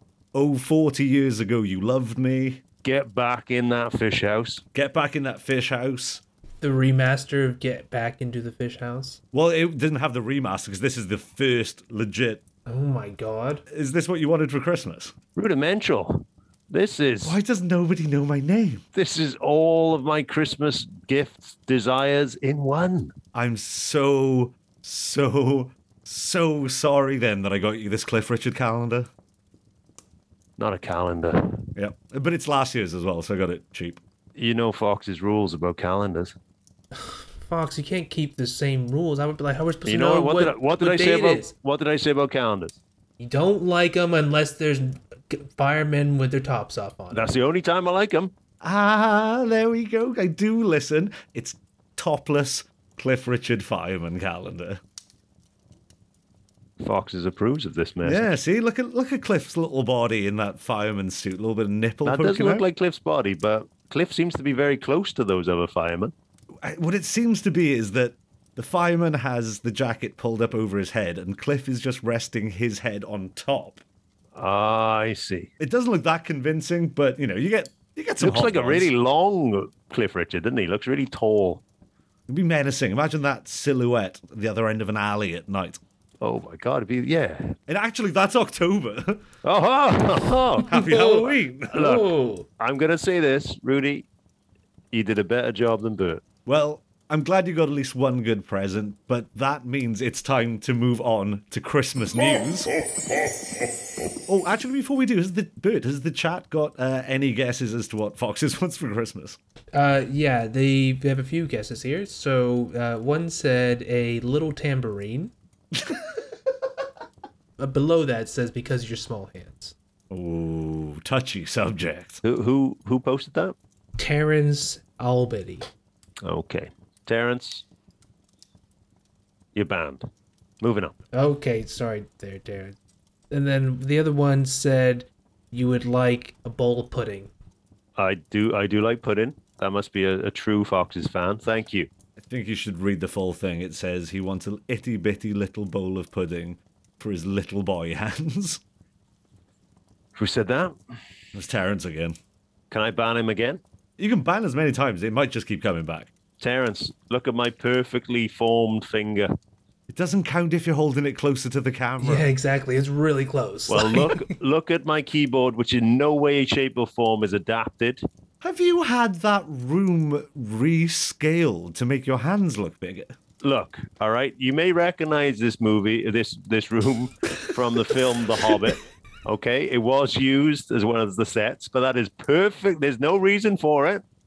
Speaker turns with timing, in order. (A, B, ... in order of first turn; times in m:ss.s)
0:00.3-0:02.6 A
0:02.8-0:04.6 B
0:04.7-0:06.2 A
0:06.6-0:09.2 C
0:09.3-0:12.4 A
0:12.6-0:13.6 C
0:13.7-0:15.1 A
0:15.4-0:17.4 B
0:17.2-0:18.8 A
0:18.9-0:23.1 B
0:23.3-0:29.1 A
0:30.6-0:31.6 B
0:31.8-0:34.0 A
0:34.4-0:36.4 B
0:36.9-0:41.5 C
0:39.8-0:42.8 B
0:43.2-0:47.3 C
0:47.1-0:48.3 B
0:48.6-0:54.8 A
0:56.8-0:58.3 B
0:58.0-1:02.7 A
1:02.0-1:06.1 B
1:06.6-1:13.8 A
1:14.3-1:15.5 B
1:15.6-1:18.9 A
1:18.2-1:21.6 B
1:22.3-1:25.8 A
1:26.2-1:27.5 B
1:27.7-1:29.2 A
1:29.4-1:30.7 B
1:30.6-1:31.8 A
1:30.7-1:32.5 C
1:31.7-1:34.0 B
1:34.9-1:36.2 B
1:36.4-1:42.7 A
1:44.3-1:49.4 A
1:49.7-1:55.3 C
1:55.7-1:56.0 A
1:57.6-1:59.7 C
2:00.1-2:02.2 A
2:02.2-2:03.6 B
2:04.0-2:05.7 C
2:06.2-2:07.6 B
2:09.5-2:10.0 B
2:10.6-2:11.0 B
2:11.1-2:12.8 C
2:13.3-2:17.3 C
2:18.0-2:21.9 B
2:22.2-2:28.6 A
2:30.2-2:30.7 B
2:31.3-2:32.2 A
2:32.7-2:33.6 B
2:34.0-2:36.1 A
2:36.4-2:39.3 B
2:39.9-2:42.3 A
2:42.0-2:44.2 C
2:43.7-2:48.0 B
2:48.4-2:53.2 A
2:53.4-3:04.0 B